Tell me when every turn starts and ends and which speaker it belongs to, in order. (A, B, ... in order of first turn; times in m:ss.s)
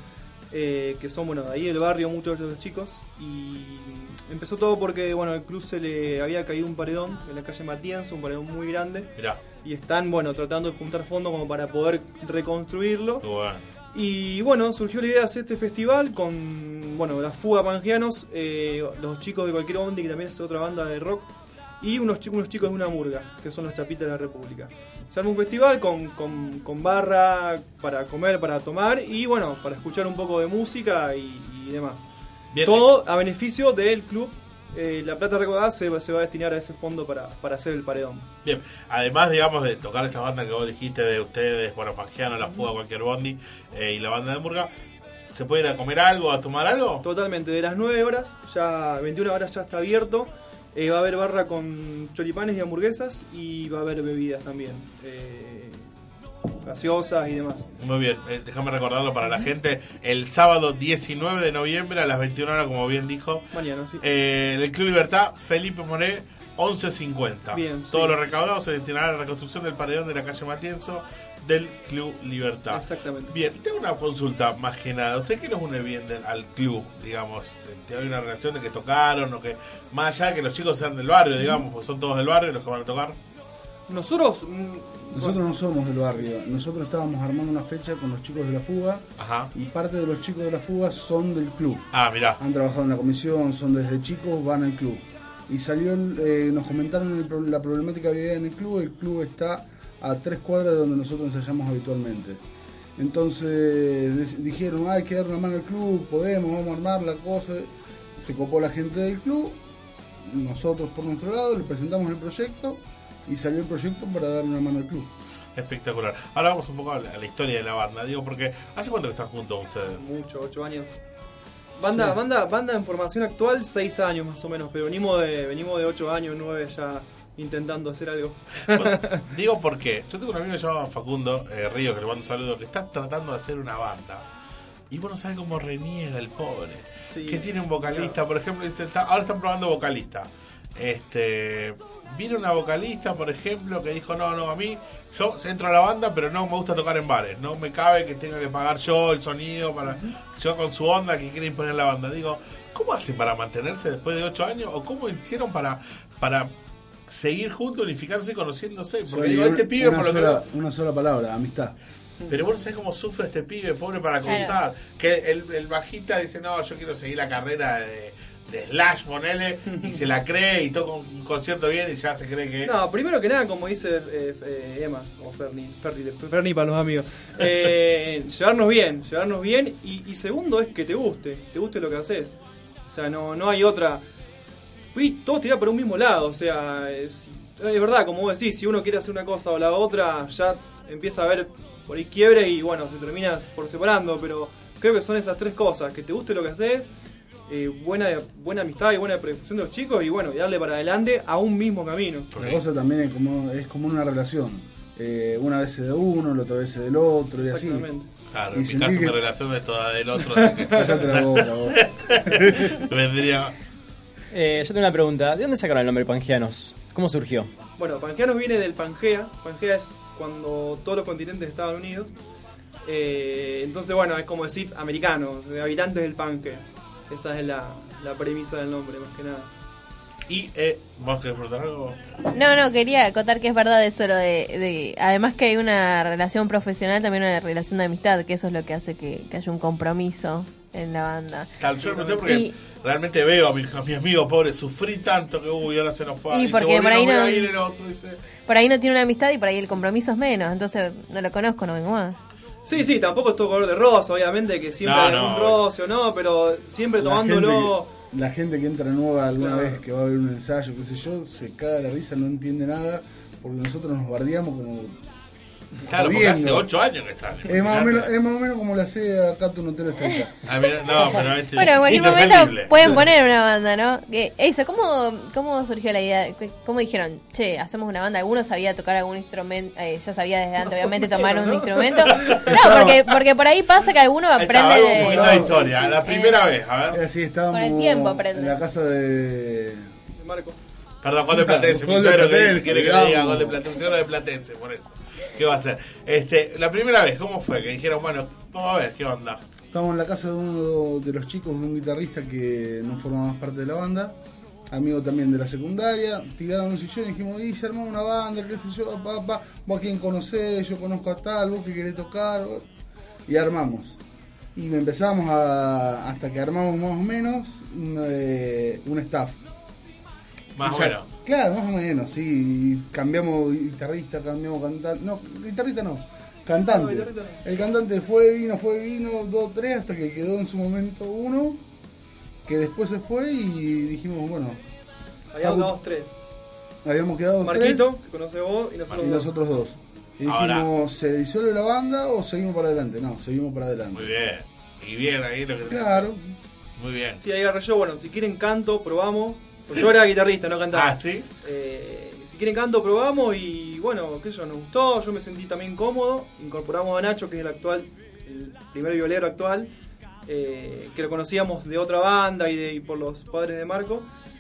0:00.5-0:13.3 A
0:09.2-0:09.4 B
0:13.2-0:13.6 B
0:13.9-0:32.1 A
0:32.5-0:32.9 B
0:32.6-0:38.3 A
0:38.4-0:44.7 B
0:45.3-0:47.1 B
0:47.0-0:55.9 A
0:56.6-0:57.7 A
0:57.8-1:03.4 B
1:03.5-1:04.1 A
1:04.0-1:23.2 B
1:07.5-1:08.2 A
1:12.7-1:13.4 A
1:23.9-1:25.4 A
1:25.1-1:31.9 C
1:29.2-1:29.5 B
1:31.9-1:32.4 B
1:32.4-1:42.4 C
1:43.0-1:49.6 C
1:50.2-1:55.1 C
1:55.6-2:00.0 B
1:59.9-2:01.0 A
2:01.8-2:09.3 A
2:01.9-2:02.1 C
2:08.7-2:14.3 B
2:14.9-2:36.5 B
2:17.1-2:18.2 A
2:37.1-2:40.4 B
2:39.1-2:41.7 C
2:42.3-2:52.7 B
2:44.2-2:44.6 D
2:49.7-2:50.0 A
2:52.6-3:04.0 A
3:04.9-3:16.9 A
3:17.5-3:22.3 A
3:22.3-3:22.6 B
3:22.4-3:27.9 C
3:27.4-3:28.1 A
3:28.3-3:33.5 B
3:28.5-3:29.2 C
3:30.3-3:30.9 A
3:30.7-3:32.7 C
3:34.3-3:37.5 E
3:37.8-3:42.1 A
3:42.8-3:49.5 A
3:50.3-3:52.0 B
3:52.3-4:01.5 D
4:01.6-4:08.2 B
4:01.8-4:02.2 A
4:02.2-4:02.5 D
4:06.3-4:07.5 D
4:08.5-4:12.2 D
4:12.7-4:17.9 A
4:14.8-4:15.6 B
4:17.0-4:25.0 C
4:19.4-4:19.8 A
4:25.9-4:28.1 B
4:25.9-4:26.7 C
4:27.4-4:30.3 C
4:30.4-4:32.8 B
4:31.6-4:46.4 D
4:40.6-4:42.5 A
4:42.4-4:43.0 C
4:44.4-4:47.0 B
4:44.9-4:45.7 C
4:45.5-4:46.0 A
4:46.9-4:49.9 C
4:47.5-4:48.6 D
4:50.1-4:50.6 A
4:51.0-4:59.4 B
4:51.2-4:53.6 C
4:59.7-5:04.2 C
5:04.7-5:12.7 C
5:13.3-5:14.0 C
5:14.6-5:19.4 C
5:20.6-5:21.1 B
5:20.6-5:31.6 C
5:26.6-5:27.4 A
5:32.4-5:34.6 C
5:35.3-5:36.2 A
5:35.4-5:35.8 C
5:36.8-5:37.9 C
5:37.4-5:39.3 A
5:39.0-5:44.1 C
5:40.3-5:40.7 B
5:43.9-5:46.1 B
5:45.7-5:46.3 C
5:46.8-5:47.2 B
5:47.2-5:59.7 A
5:50.7-5:51.3 B
6:00.3-6:04.1 A